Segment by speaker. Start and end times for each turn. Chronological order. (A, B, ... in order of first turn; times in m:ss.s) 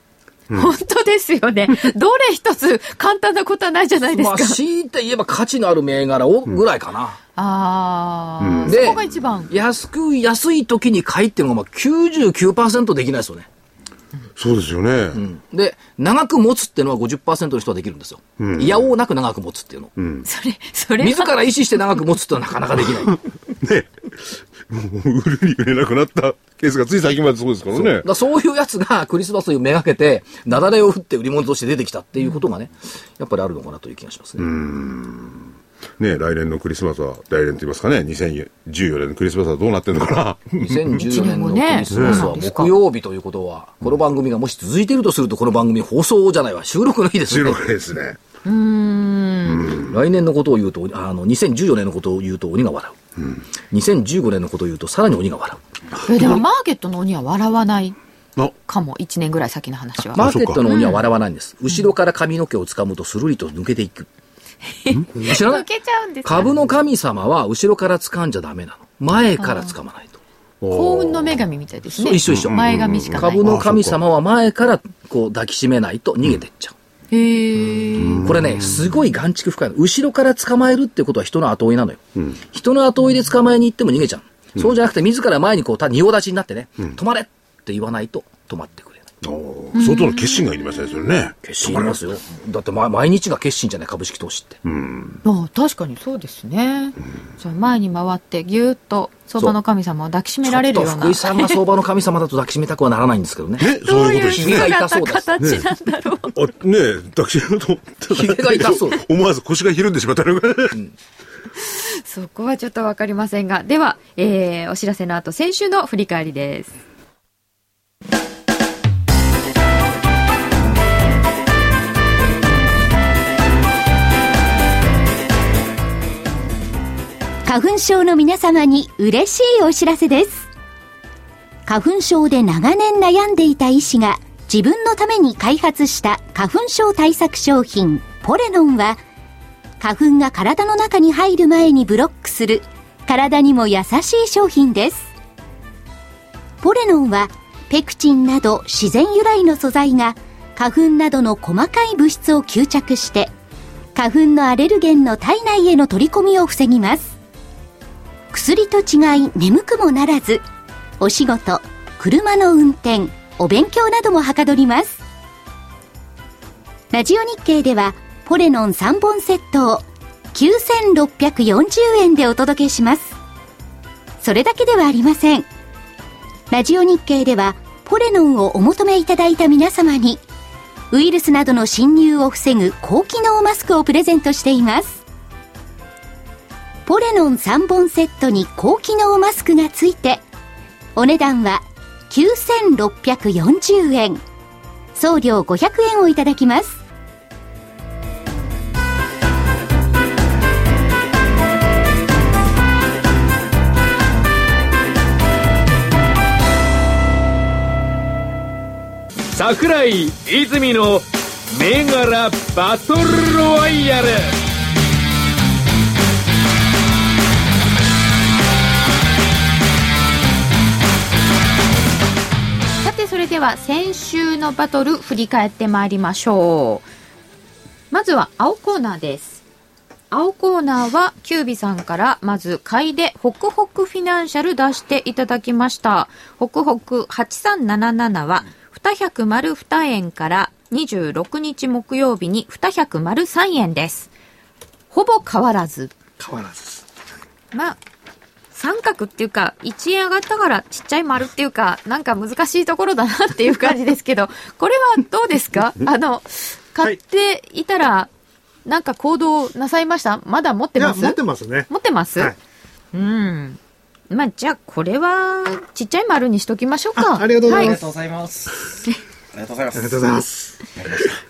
0:00.5-0:04.6 A
0:04.1-0:07.2 B
0:07.4-0:09.5 A
0:08.4-0:09.0 C
0:08.7-0:13.5 B
0:14.4-0:15.2 C
0:15.1-0:19.9 B
0:18.4-0:18.8 C
0:20.0-0:20.2 C
0:20.2-0:21.3 A
0:21.0-0:23.2 B
0:23.1-0:28.0 C
0:27.7-0:34.5 B
0:34.4-0:40.8 C
0:40.6-0:47.6 B
0:41.0-0:42.8 A
0:41.9-0:42.2 C
0:47.3-0:48.2 C
0:48.4-0:49.7 A
0:49.7-0:53.0 B
0:53.6-0:55.6 B
0:56.1-0:58.0 A
0:58.7-1:01.1 A
1:00.2-1:00.6 C
1:00.2-1:04.1 B
1:04.8-1:06.6 A
1:05.2-1:05.6 B
1:06.2-1:10.2 B
1:09.4-1:09.7 A
1:10.6-1:11.4 C
1:10.7-1:13.4 A
1:11.9-1:16.7 B
1:12.3-1:14.0 C
1:17.1-1:18.3 A
1:18.0-1:18.8 C
1:18.2-1:29.1 B
1:29.2-1:32.0 C
1:29.7-1:30.5 A
1:31.4-1:34.6 B
1:34.6-1:35.2 C
1:35.2-1:41.6 A
1:40.4-1:45.3 B
1:43.6-1:44.7 C
1:43.8-1:46.4 A
1:45.4-1:45.7 C
1:46.3-1:50.8 C
1:48.1-1:49.0 B
1:51.6-1:56.8 A
2:07.4-2:10.5 D
2:11.6-2:19.0 D
2:19.8-2:25.1 D
2:26.6-2:33.3 D
2:33.9-2:37.1 D
2:38.3-2:40.4 D
2:41.0-2:45.0 D
2:46.9-2:53.2 D
2:54.2-2:55.5 D
2:56.5-3:00.2 D
3:00.9-3:05.0 D
3:06.8-3:10.2 D
3:10.9-3:14.2 D
3:14.9-3:16.8 D
3:29.3-3:34.4 E
3:42.8-3:46.9 A
3:47.9-3:49.4 A
3:50.1-4:04.1 A
4:04.9-4:05.9 A
4:06.2-4:06.8 F
4:08.5-4:18.1 A
4:18.6-4:21.2 A
4:20.8-4:22.4 F
4:21.7-4:22.3 A
4:22.9-4:23.6 A
4:24.1-4:27.8 A
4:27.0-4:27.8 F
4:27.4-4:28.8 G
4:29.3-4:30.2 G
4:29.7-4:30.6 F
4:30.8-4:31.2 G